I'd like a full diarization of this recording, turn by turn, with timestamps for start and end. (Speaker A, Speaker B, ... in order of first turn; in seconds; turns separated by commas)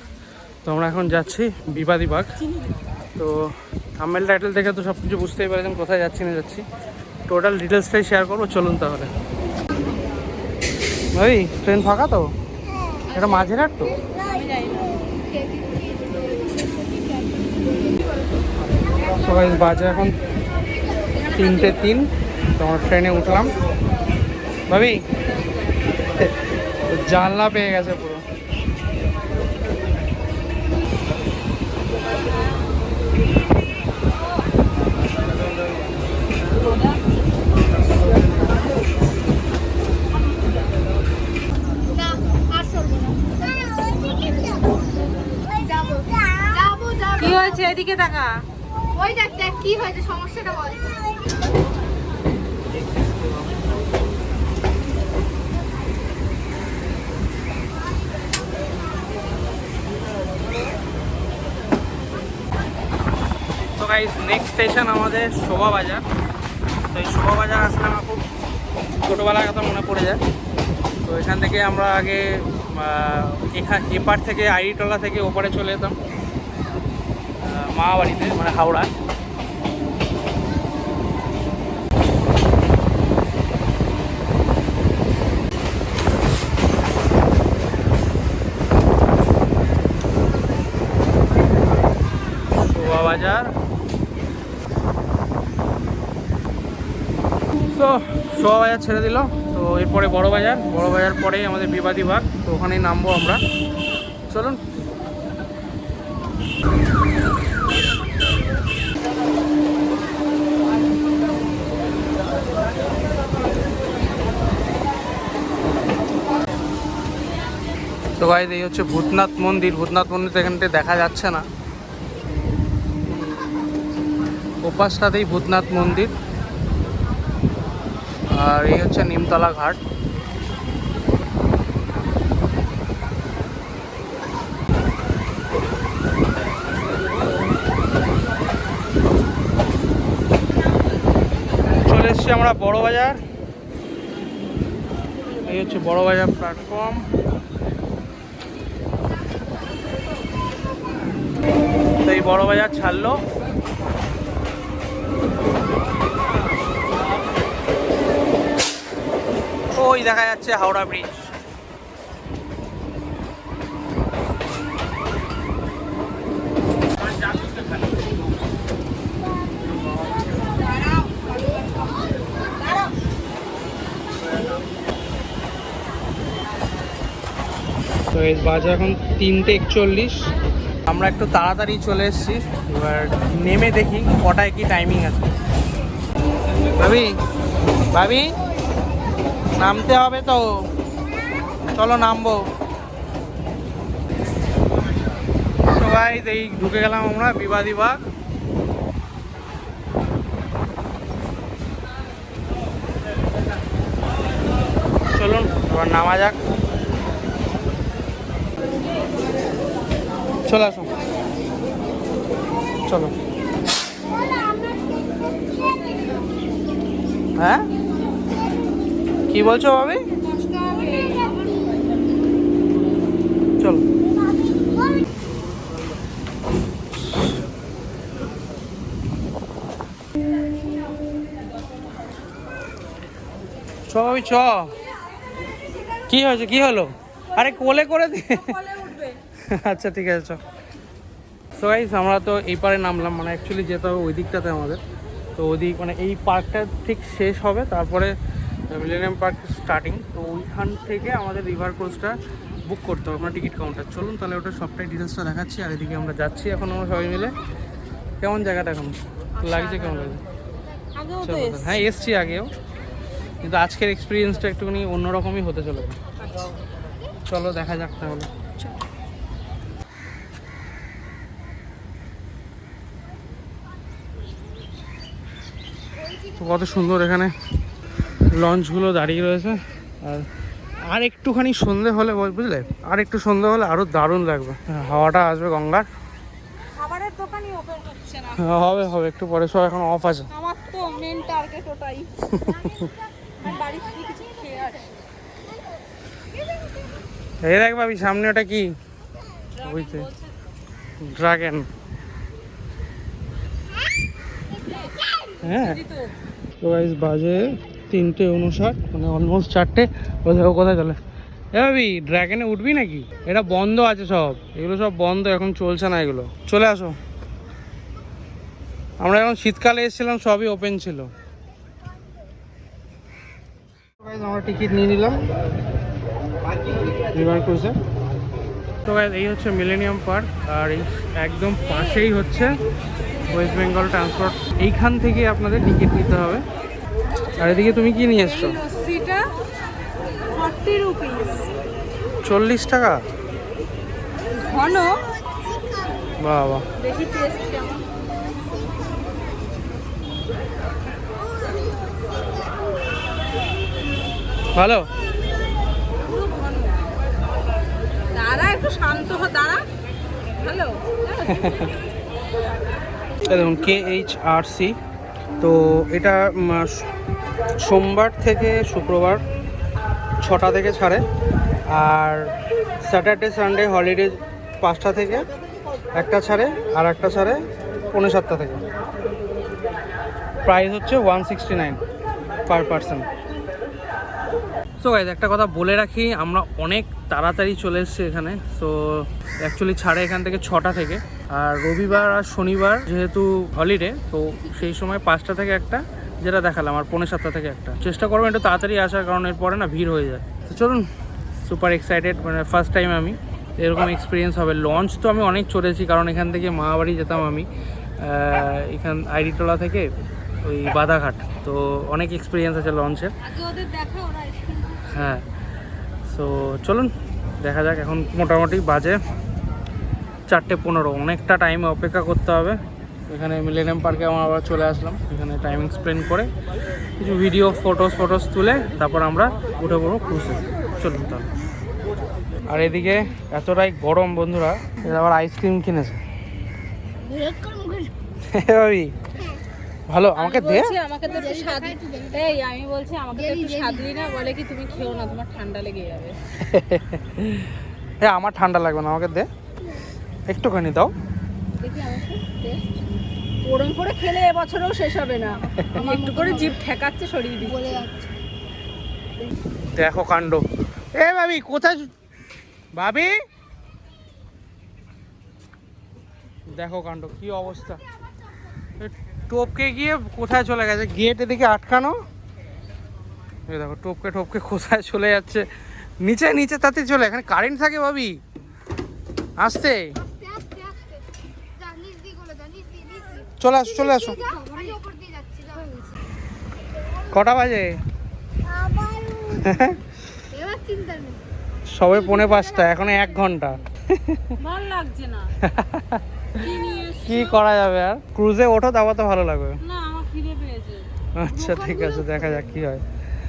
Speaker A: 0.7-2.3, Speaker A: 3.2-6.6, Speaker A: 7.3-9.1, Speaker A: 11.2-12.3, Speaker A: 13.1-13.9, Speaker B: 14.2-14.9, Speaker C: 15.0-16.8, Speaker A: 19.2-20.1, Speaker A: 21.3-23.5, Speaker A: 24.7-25.0, Speaker A: 26.9-28.2, Speaker C: 41.9-44.8, Speaker C: 45.5-47.8, Speaker B: 47.2-48.4, Speaker C: 48.9-51.2, Speaker A: 63.8-66.0, Speaker A: 66.9-68.2, Speaker A: 69.0-70.2, Speaker A: 71.0-76.0, Speaker A: 77.4-78.9, Speaker A: 92.7-93.5, Speaker A: 97.7-103.4, Speaker A: 104.3-104.6, Speaker A: 118.2-121.5, Speaker A: 124.6-126.1, Speaker A: 128.3-129.8, Speaker A: 141.9-143.2, Speaker A: 145.5-147.1, Speaker A: 152.1-153.2, Speaker A: 159.8-161.2, Speaker A: 178.1-180.3, Speaker A: 180.9-185.3, Speaker A: 186.8-187.2, Speaker A: 187.9-188.3, Speaker A: 189.6-190.4, Speaker A: 191.8-192.4, Speaker A: 195.7-198.0, Speaker A: 205.1-206.3, Speaker A: 210.5-210.9, Speaker A: 212.9-213.1, Speaker A: 217.4-217.7, Speaker A: 219.3-220.0, Speaker B: 220.3-221.3, Speaker A: 223.6-223.8, Speaker A: 233.9-234.7, Speaker A: 236.1-238.6, Speaker B: 238.5-239.2, Speaker A: 239.4-240.4, Speaker A: 241.6-244.8, Speaker A: 245.4-248.2, Speaker A: 248.7-257.4, Speaker A: 258.2-260.2, Speaker B: 259.4-260.1, Speaker B: 260.9-261.8, Speaker A: 261.2-262.5, Speaker A: 263.4-266.0, Speaker A: 267.3-268.3, Speaker A: 276.4-277.3, Speaker A: 278.3-280.3, Speaker A: 280.9-285.9, Speaker B: 286.8-288.4, Speaker A: 288.4-290.3, Speaker B: 290.3-292.6, Speaker A: 292.3-292.8, Speaker B: 293.4-294.9, Speaker A: 297.4-298.7, Speaker B: 299.6-300.3, Speaker A: 299.6-300.1, Speaker A: 301.0-301.7, Speaker A: 305.4-305.8, Speaker B: 305.6-306.1, Speaker A: 306.6-311.0, Speaker A: 311.5-317.0, Speaker A: 319.0-321.1, Speaker A: 324.0-325.2, Speaker A: 327.1-327.8, Speaker A: 328.9-332.6, Speaker A: 333.3-336.4, Speaker A: 337.4-338.6, Speaker B: 338.2-339.3, Speaker B: 340.3-341.5, Speaker A: 342.2-343.0, Speaker B: 344.4-345.0, Speaker C: 345.4-346.0, Speaker A: 346.2-346.6, Speaker B: 346.8-347.8, Speaker C: 351.2-352.1, Speaker A: 354.6-354.9, Speaker B: 356.0-356.9, Speaker B: 358.1-359.6, Speaker B: 360.4-361.7, Speaker A: 361.3-361.7, Speaker A: 363.3-364.8, Speaker A: 365.4-366.9, Speaker A: 367.6-369.2, Speaker A: 370.2-371.0, Speaker A: 371.7-372.3, Speaker A: 372.9-375.3, Speaker A: 375.9-377.4, Speaker A: 377.9-378.6, Speaker A: 380.5-381.8, Speaker A: 382.5-383.1, Speaker A: 384.8-400.9, Speaker A: 401.4-407.5, Speaker A: 408.0-409.9, Speaker A: 410.4-413.1, Speaker B: 413.2-415.0, Speaker A: 414.9-415.2, Speaker A: 416.1-419.0, Speaker A: 420.3-426.3, Speaker A: 427.0-431.3, Speaker A: 432.5-436.0, Speaker C: 437.0-437.9, Speaker A: 438.3-438.9, Speaker A: 439.9-440.7, Speaker B: 440.2-446.2, Speaker C: 441.1-442.3, Speaker C: 443.1-443.9, Speaker A: 446.4-447.5, Speaker A: 448.0-449.3, Speaker A: 450.3-450.9, Speaker B: 451.6-452.6, Speaker B: 453.4-457.8, Speaker C: 455.8-456.5, Speaker C: 457.4-458.1, Speaker A: 459.8-460.4, Speaker A: 460.9-461.9, Speaker A: 462.8-463.1, Speaker A: 466.5-467.8, Speaker A: 468.8-472.0, Speaker A: 473.5-475.5, Speaker A: 476.0-478.2, Speaker A: 479.4-480.0, Speaker C: 480.0-481.0, Speaker C: 481.6-486.0, Speaker A: 483.4-484.2, Speaker B: 484.2-484.6, Speaker A: 487.1-487.7, Speaker C: 488.4-489.7, Speaker A: 489.4-489.8, Speaker C: 490.3-491.2, Speaker A: 491.7-494.4, Speaker C: 491.9-493.4, Speaker B: 494.4-495.3, Speaker A: 495.4-496.4, Speaker B: 496.4-497.4, Speaker A: 497.0-499.6, Speaker B: 499.6-500.9, Speaker A: 501.2-502.8, Speaker B: 501.4-502.4